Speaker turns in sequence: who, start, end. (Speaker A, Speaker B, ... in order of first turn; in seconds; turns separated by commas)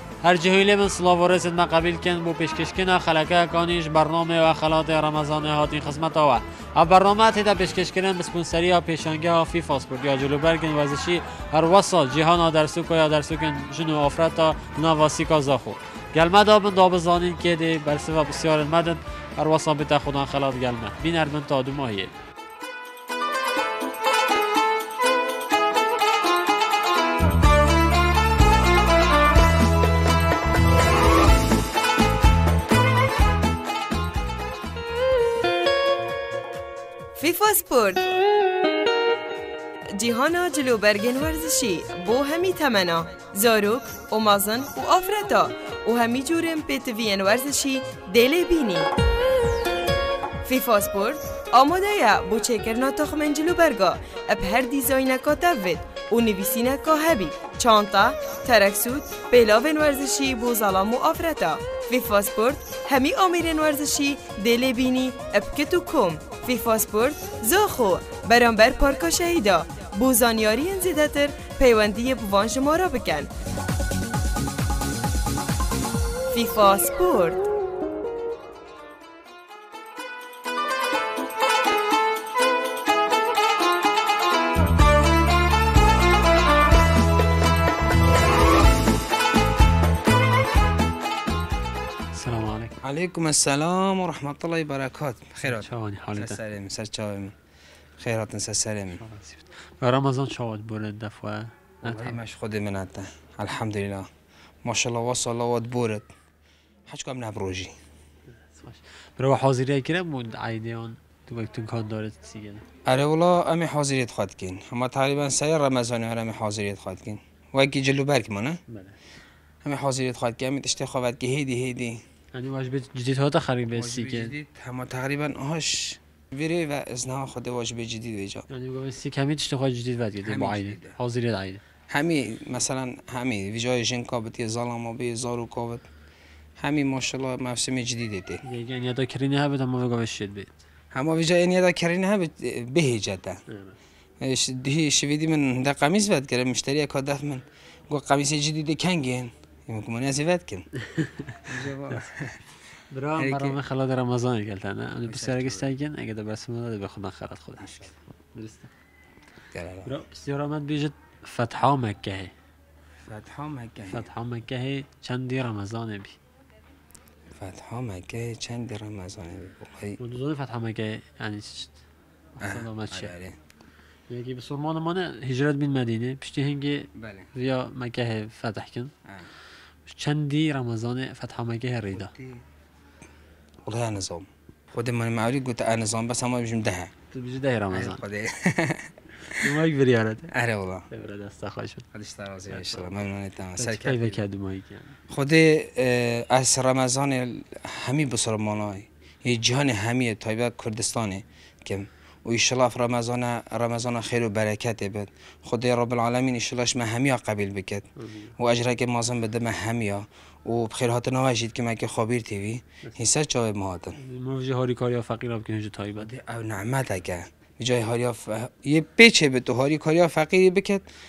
Speaker A: 0.2-22.1, Speaker B: 37.2-38.0, Speaker B: 40.0-48.9, Speaker B: 50.5-73.3, Speaker B: 76.3-77.4, Speaker A: 92.1-92.7, Speaker C: 92.8-97.3, Speaker A: 95.5-96.4, Speaker C: 98.0-99.0, Speaker A: 99.0-102.2, Speaker C: 101.8-104.1, Speaker C: 104.7-106.1, Speaker C: 106.9-107.8, Speaker A: 108.3-112.7, Speaker C: 112.8-118.6, Speaker A: 118.7-119.0, Speaker C: 119.6-122.0, Speaker A: 122.3-124.3, Speaker C: 123.7-128.5, Speaker A: 128.5-131.6, Speaker C: 130.2-130.9, Speaker C: 131.9-135.8, Speaker C: 136.6-138.4, Speaker A: 138.4-140.5, Speaker C: 140.9-143.4, Speaker A: 143.5-143.8, Speaker C: 144.2-150.7, Speaker A: 150.8-152.1, Speaker C: 151.4-152.4, Speaker A: 152.9-157.7, Speaker C: 153.2-153.6, Speaker C: 155.1-155.7, Speaker C: 157.6-157.9, Speaker A: 158.3-158.7, Speaker C: 159.5-159.9, Speaker A: 159.9-162.3, Speaker C: 163.1-164.1, Speaker A: 163.9-166.2, Speaker C: 167.4-170.0, Speaker A: 170.0-171.8, Speaker A: 172.4-173.1, Speaker C: 172.4-173.3, Speaker A: 174.1-178.9, Speaker C: 177.0-177.3, Speaker A: 179.9-182.1, Speaker C: 181.9-182.4, Speaker C: 183.7-186.9, Speaker A: 187.1-188.0, Speaker C: 187.7-189.3, Speaker A: 189.3-190.3, Speaker C: 190.3-190.9, Speaker A: 190.9-191.8, Speaker C: 191.9-194.2, Speaker A: 192.5-192.9, Speaker A: 193.6-195.0, Speaker C: 195.1-214.0, Speaker A: 208.0-208.3, Speaker A: 214.0-216.1, Speaker C: 216.0-220.8